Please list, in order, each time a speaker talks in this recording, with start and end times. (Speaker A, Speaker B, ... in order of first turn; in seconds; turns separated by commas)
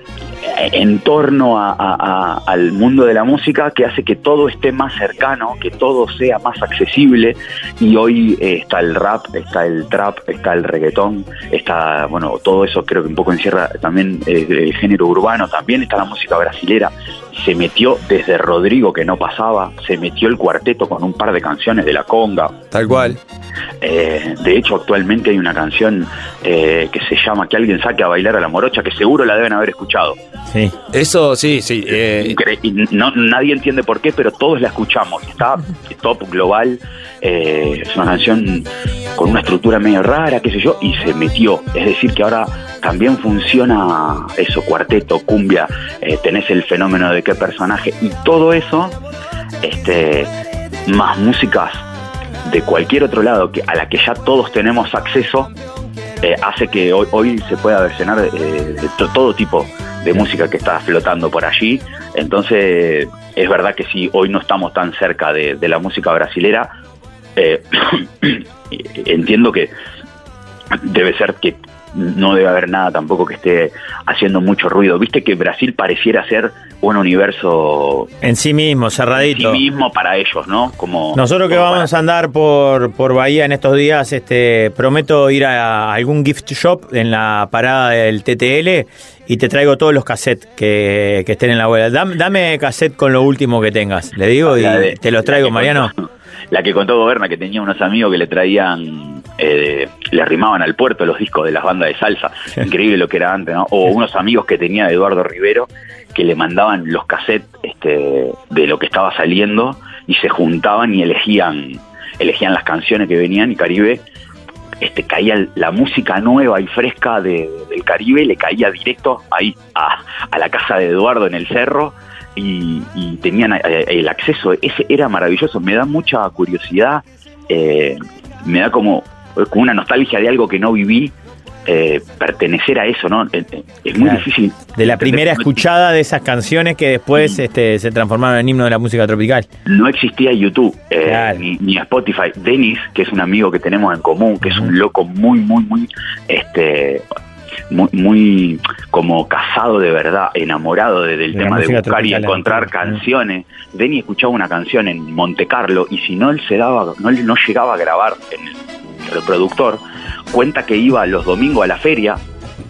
Speaker A: 0.5-22.6, Speaker B: 22.7-23.2, Speaker A: 23.8-30.2, Speaker B: 30.9-32.4, Speaker A: 32.2-49.0, Speaker A: 49.6-50.3, Speaker A: 50.9-51.8, Speaker A: 52.4-55.5, Speaker A: 56.2-66.7, Speaker A: 67.3-69.7, Speaker A: 70.7-78.1, Speaker C: 78.2-79.6, Speaker A: 79.2-81.9, Speaker C: 81.1-95.9, Speaker A: 94.4-95.9, Speaker A: 96.5-114.0, Speaker A: 114.8-131.1, Speaker A: 131.7-135.6, Speaker C: 134.0-134.2, Speaker C: 134.8-139.4, Speaker A: 139.7-147.1, Speaker C: 141.1-141.4, Speaker A: 147.7-162.2, Speaker C: 151.3-153.0